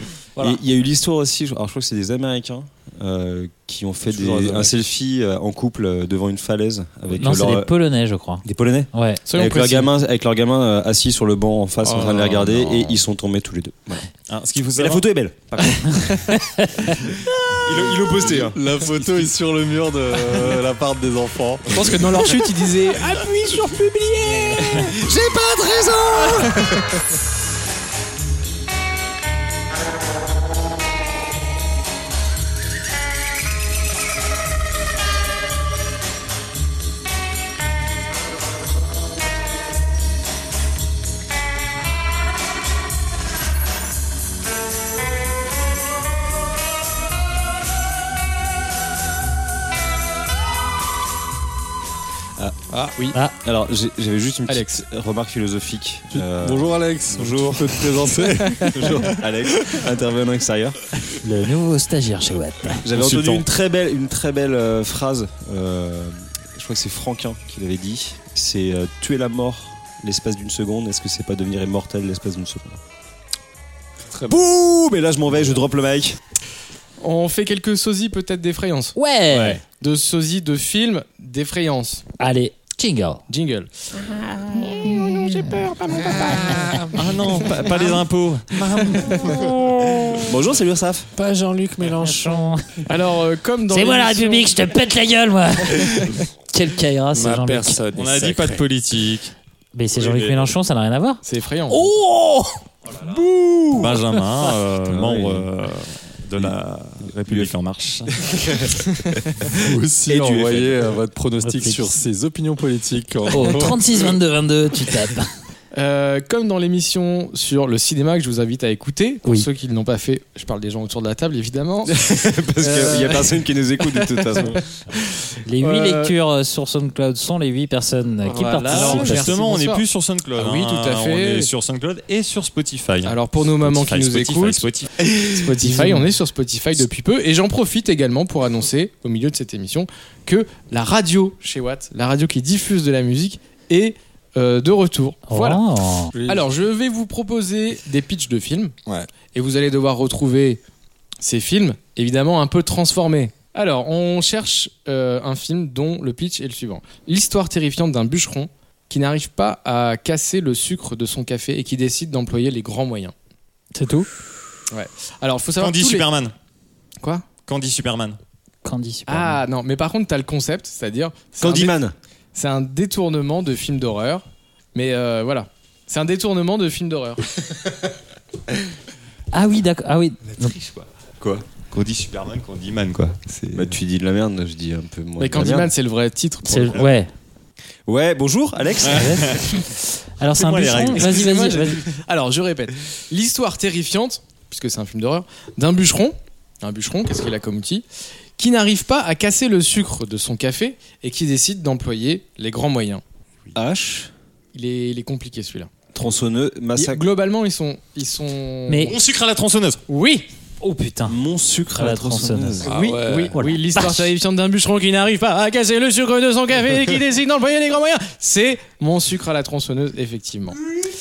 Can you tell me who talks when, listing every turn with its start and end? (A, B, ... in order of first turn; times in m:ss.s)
0:00.4-0:07.8 A
0:04.1-0:04.7 B
0:07.2-0:09.2 C
0:08.4-0:14.1 A
0:09.3-0:09.9 D
0:11.8-0:12.3 D
0:12.0-0:12.2 B
0:14.3-0:15.1 E
0:14.8-0:16.3 A
0:15.8-0:16.5 D
0:17.1-0:18.6 A
0:18.3-0:22.3 B
0:21.7-0:25.1 D
0:24.6-0:26.8 A
0:26.3-0:26.8 D
0:52.7-0:53.0 B
0:53.4-0:57.9 A
0:54.5-0:54.8 D
0:56.1-0:59.8 B
0:58.4-0:58.9 D
0:58.7-1:00.8 A
1:01.2-1:02.9 C
1:02.8-1:12.8 A
1:03.0-1:03.4 E
1:14.1-1:14.4 B
1:14.3-1:16.2 A
1:17.0-1:19.0 D
1:19.0-1:19.6 C
1:19.3-1:19.6 A
1:19.7-1:22.0 D
1:22.2-1:23.2 C
1:23.3-1:28.0 D
1:26.3-1:27.0 B
1:26.3-1:26.6 C
1:26.9-1:29.5 E
1:28.6-1:29.9 B
1:28.9-1:29.6 D
1:30.2-1:31.1 A
1:31.2-1:32.4 B
1:31.9-1:32.9 C
1:32.9-1:34.5 D
1:33.7-1:37.8 C
1:35.8-1:36.1 D
1:37.1-1:38.6 B
1:37.9-1:39.3 E
1:39.7-1:41.2 C
1:40.0-1:40.5 E
1:41.2-1:41.9 D
1:41.9-1:42.4 B
1:43.1-1:44.0 D
1:43.7-1:48.2 E
1:44.9-1:45.4 A
1:48.1-1:48.8 A
1:49.4-1:50.9 A
1:49.5-1:54.1 B
1:51.4-1:51.9 C
1:53.3-1:55.3 C
1:55.7-2:03.3 D
2:01.9-2:04.6 A
2:02.6-2:03.2 B
2:03.8-2:06.2 D
2:05.4-2:09.3 C
2:08.3-2:09.8 D
2:08.4-2:08.7 B
2:08.6-2:15.1 E
2:10.4-2:11.5 D
2:13.0-2:25.6 D
2:15.7-2:16.1 C
2:25.3-2:26.1 C
2:26.1-2:26.5 B
2:26.2-2:28.8 D
2:29.3-2:30.6 D
2:31.2-2:43.1 D
2:43.8-2:44.1 C
2:44.7-2:46.1 D
2:45.6-2:46.3 E
2:47.0-2:47.3 D
2:47.5-2:48.2 E
2:48.6-2:49.4 C
2:49.1-2:51.8 D
2:51.4-2:51.9 A
2:52.4-2:57.2 D
2:59.3-3:00.6 C
3:00.4-3:00.9 E
3:01.2-3:01.5 A
3:01.6-3:03.4 E
3:03.5-3:05.7 A
3:05.2-3:06.9 D
3:06.4-3:07.1 C
3:07.9-3:09.4 A
3:08.8-3:09.6 E
3:08.9-3:09.4 C
3:10.2-3:11.9 C
3:10.3-3:11.3 E
3:10.9-3:17.9 D
3:18.4-3:23.0 D
3:23.5-3:24.1 A
3:24.5-3:25.7 D
3:25.9-3:27.0 A
3:26.8-3:28.9 D
3:28.7-3:29.0 C
3:28.8-3:29.8 E
3:29.9-3:30.3 D
3:30.6-3:31.2 C
3:31.1-3:32.8 A
3:31.8-3:32.7 C
3:32.7-3:33.4 B
3:32.7-3:40.6 D
3:33.3-3:33.8 C